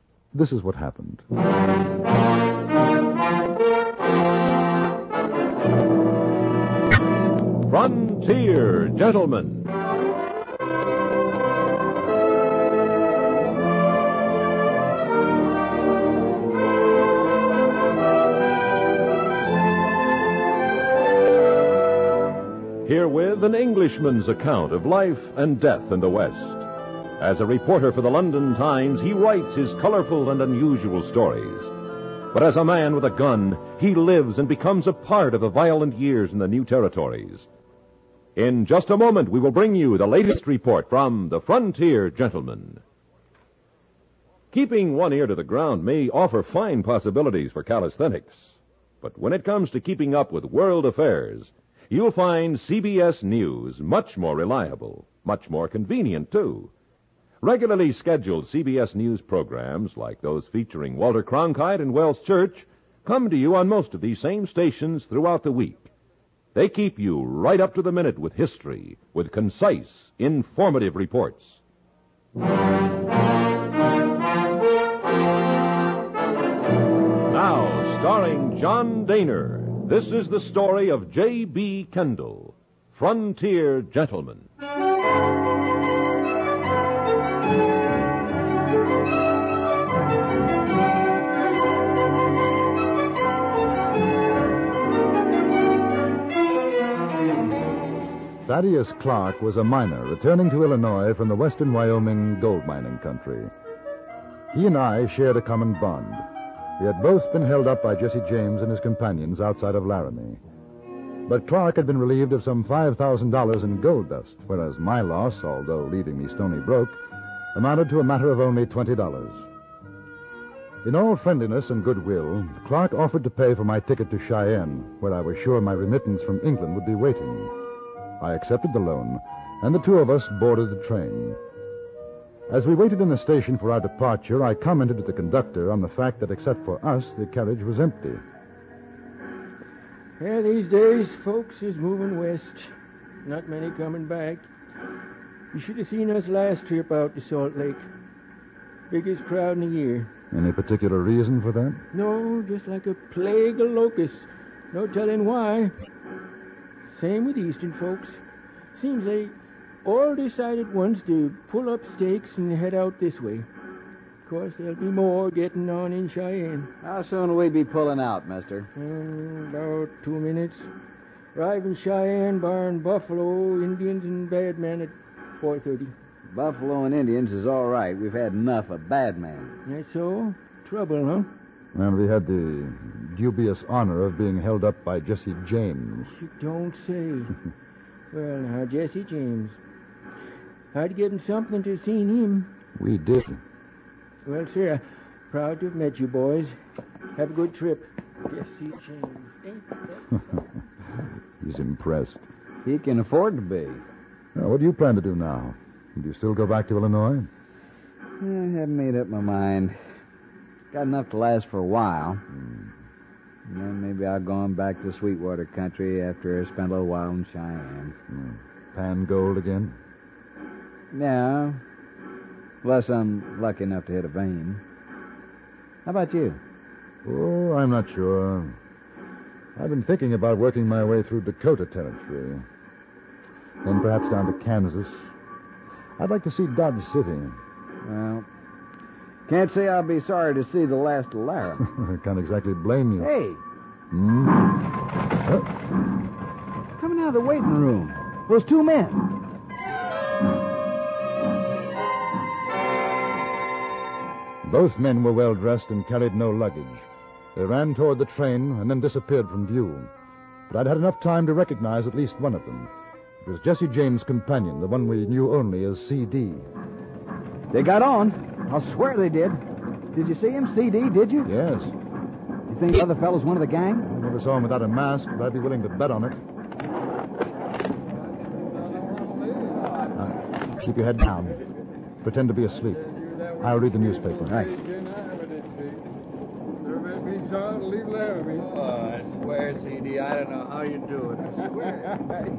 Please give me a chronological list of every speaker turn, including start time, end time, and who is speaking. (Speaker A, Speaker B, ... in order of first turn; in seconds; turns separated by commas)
Speaker A: 0.3-1.2, Speaker B: 7.6-9.7, Speaker B: 22.8-26.7, Speaker B: 27.2-31.7, Speaker B: 32.3-37.5, Speaker B: 38.4-42.8, Speaker B: 44.5-56.7, Speaker B: 57.4-65.9, Speaker B: 66.5-71.6, Speaker B: 77.3-84.5, Speaker A: 98.5-103.5, Speaker A: 104.5-106.2, Speaker A: 106.8-110.4, Speaker A: 111.3-117.0, Speaker A: 117.5-119.5, Speaker A: 120.8-127.5, Speaker A: 128.2-131.4, Speaker A: 132.5-138.2, Speaker C: 140.2-142.7, Speaker C: 143.2-144.4, Speaker C: 145.5-147.9, Speaker C: 148.9-150.1, Speaker A: 150.3-151.8, Speaker C: 151.9-155.8, Speaker C: 156.9-158.2, Speaker C: 158.7-163.5, Speaker C: 164.2-166.7, Speaker D: 166.8-168.7, Speaker C: 168.8-170.7, Speaker C: 171.3-175.9, Speaker D: 176.3-179.6, Speaker C: 179.7-181.3, Speaker A: 181.7-186.1, Speaker C: 186.2-187.4, Speaker C: 188.1-189.6, Speaker C: 190.7-192.5, Speaker A: 192.8-193.4, Speaker C: 194.2-196.6, Speaker C: 197.2-200.4, Speaker A: 201.4-202.2, Speaker D: 202.6-203.8, Speaker A: 204.3-207.3, Speaker D: 208.2-209.8, Speaker D: 210.7-212.2, Speaker A: 212.3-212.7, Speaker D: 213.5-218.0, Speaker A: 218.1-219.8, Speaker D: 220.9-221.6, Speaker D: 222.6-224.6, Speaker D: 225.8-226.4, Speaker A: 227.1-228.6, Speaker A: 229.6-232.5, Speaker A: 233.6-235.1, Speaker A: 236.0-237.4, Speaker D: 237.8-238.3, Speaker D: 239.3-241.7, Speaker A: 241.6-243.1, Speaker D: 243.0-243.4, Speaker A: 243.9-245.5, Speaker D: 246.8-249.1, Speaker A: 254.4-259.9, Speaker A: 260.5-266.5, Speaker D: 267.5-271.3, Speaker A: 271.2-271.7, Speaker D: 272.5-273.9, Speaker A: 273.9-276.2, Speaker E: 278.1-279.9, Speaker A: 279.9-281.5, Speaker A: 282.0-282.8, Speaker E: 282.7-285.9, Speaker A: 283.4-284.4, Speaker D: 284.3-284.5, Speaker E: 286.6-288.5, Speaker D: 288.4-291.9